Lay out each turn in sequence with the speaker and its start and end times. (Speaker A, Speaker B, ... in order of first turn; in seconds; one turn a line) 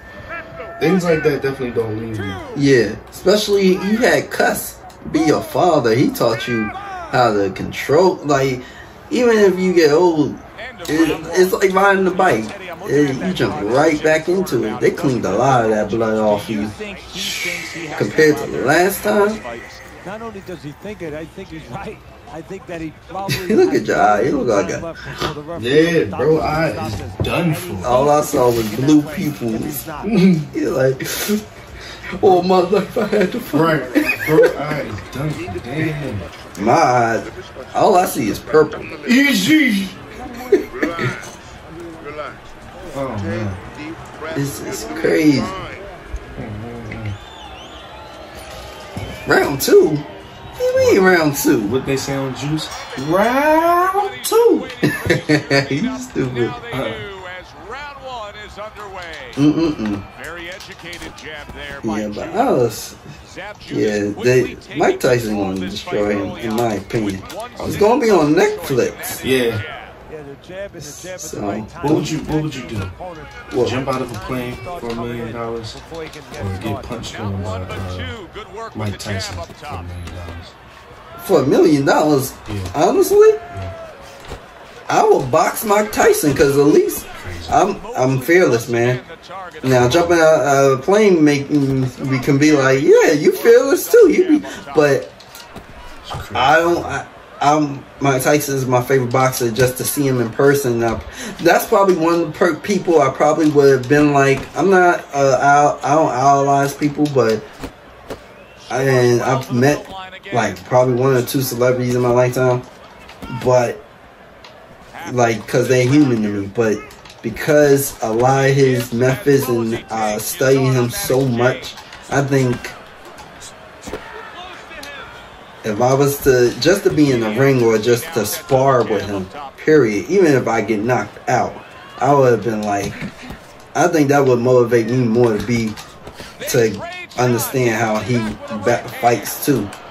Speaker A: 0.8-2.4
Speaker B: 2.5-16.7
Speaker C: 10.6-20.0
Speaker D: 16.8-18.7
Speaker A: 17.1-17.7
Speaker B: 17.9-19.4
Speaker D: 20.0-30.4
Speaker B: 23.3-25.3
Speaker A: 25.5-28.0
Speaker B: 27.8-29.8
Speaker A: 30.0-30.5
Speaker B: 30.5-31.4
Speaker B: 32.1-34.5
Speaker A: 33.5-36.3
Speaker B: 36.5-39.0
Speaker A: 39.0-40.0
Speaker B: 40.5-41.1
Speaker A: 42.9-43.6
Speaker B: 44.3-45.5
Speaker A: 46.4-47.1
Speaker B: 49.2-51.7
Speaker A: 50.7-54.7
Speaker C: 53.8-59.4
Speaker B: 54.8-56.5
Speaker A: 56.7-57.0
Speaker B: 59.4-60.0
Speaker C: 60.1-62.5
Speaker B: 61.8-63.0
Speaker C: 63.2-70.0
Speaker B: 63.7-69.2
Speaker A: 67.5-67.8
Speaker A: 69.2-69.6
Speaker D: 70.1-77.7
Speaker B: 70.8-72.1
Speaker A: 71.8-72.9
Speaker B: 73.5-73.8
Speaker A: 73.6-75.8
Speaker A: 76.3-78.2
Speaker C: 77.1-80.0
Speaker A: 78.7-80.5
Speaker B: 81.2-83.4
Speaker A: 82.5-82.7
Speaker A: 83.5-83.7
Speaker B: 84.9-89.0
Speaker A: 87.2-87.6
Speaker C: 87.5-90.1
Speaker B: 89.6-95.1
Speaker A: 89.6-90.2
Speaker C: 92.0-95.0
Speaker A: 96.0-97.0
Speaker B: 96.3-107.4
Speaker B: 108.7-112.6
Speaker C: 108.7-110.6
Speaker B: 113.3-113.8
Speaker C: 114.9-116.5
Speaker B: 115.0-122.8
Speaker C: 118.6-121.7
Speaker C: 124.2-125.2
Speaker B: 125.6-133.1
Speaker C: 127.0-129.6
Speaker B: 133.7-135.8
Speaker C: 136.4-139.3
Speaker B: 136.4-139.7